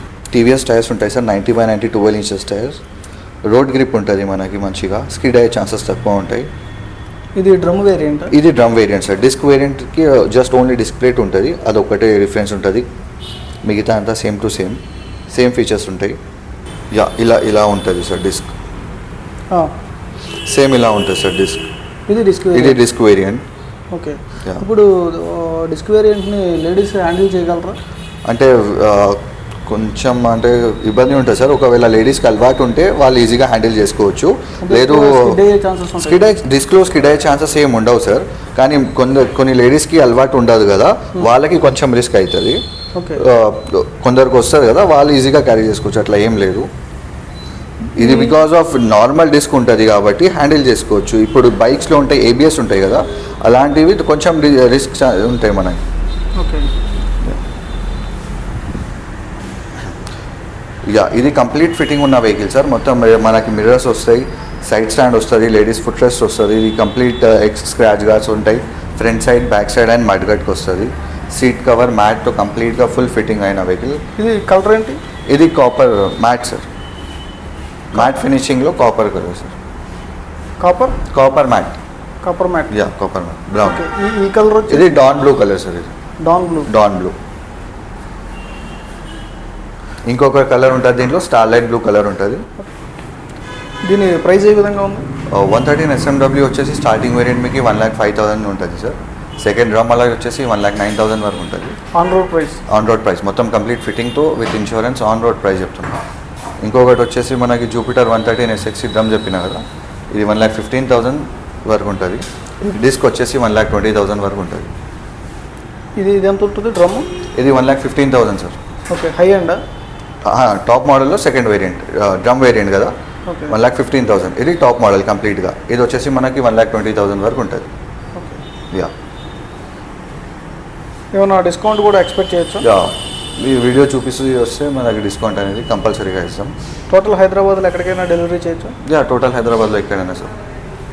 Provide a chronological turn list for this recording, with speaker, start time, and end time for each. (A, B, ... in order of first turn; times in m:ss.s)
0:00.3-0:02.8 A
0:03.4-0:06.5 A
0:07.4-0:08.3 B
0:08.3-0:12.8 A
0:13.6-0:14.8 A
0:15.3-0:16.2 A
0:16.9-0:18.5 A
0:20.4-0:21.6 A
0:22.1-0:22.8 B
0:22.5-0:23.4 A
0:23.9-0:27.8 B
0:28.2-0:35.4 A
0:34.6-0:36.2 B
0:36.0-0:42.6 A
0:42.9-0:43.2 B
0:43.2-0:46.7 A
0:47.9-0:55.8 A
0:48.0-0:48.4 B
0:56.4-0:56.7 B
1:00.9-1:14.0 A
1:14.2-1:15.0 B
1:15.3-1:16.6 A
1:17.9-1:19.6 A
1:20.6-1:21.0 B
1:21.1-1:21.8 A
1:22.2-1:22.7 B
1:22.7-1:23.8 A
1:23.6-1:25.0 B
1:24.7-1:25.9 A
1:26.2-1:26.7 B
1:26.7-1:27.1 A
1:30.0-1:32.4 A
1:33.8-1:35.0 B
1:35.3-1:41.8 A
1:41.9-1:42.6 B
1:42.7-1:46.0 A
1:46.6-1:54.7 A
1:56.0-1:57.1 B
1:57.3-1:58.6 A
1:58.9-1:59.6 B
2:00.2-2:02.9 A
2:03.3-2:03.6 B
2:03.5-2:07.7 A
2:08.2-2:08.4 B
2:11.1-2:12.6 B
2:12.6-2:16.5 A
2:16.9-2:18.7 B
2:18.8-2:20.3 A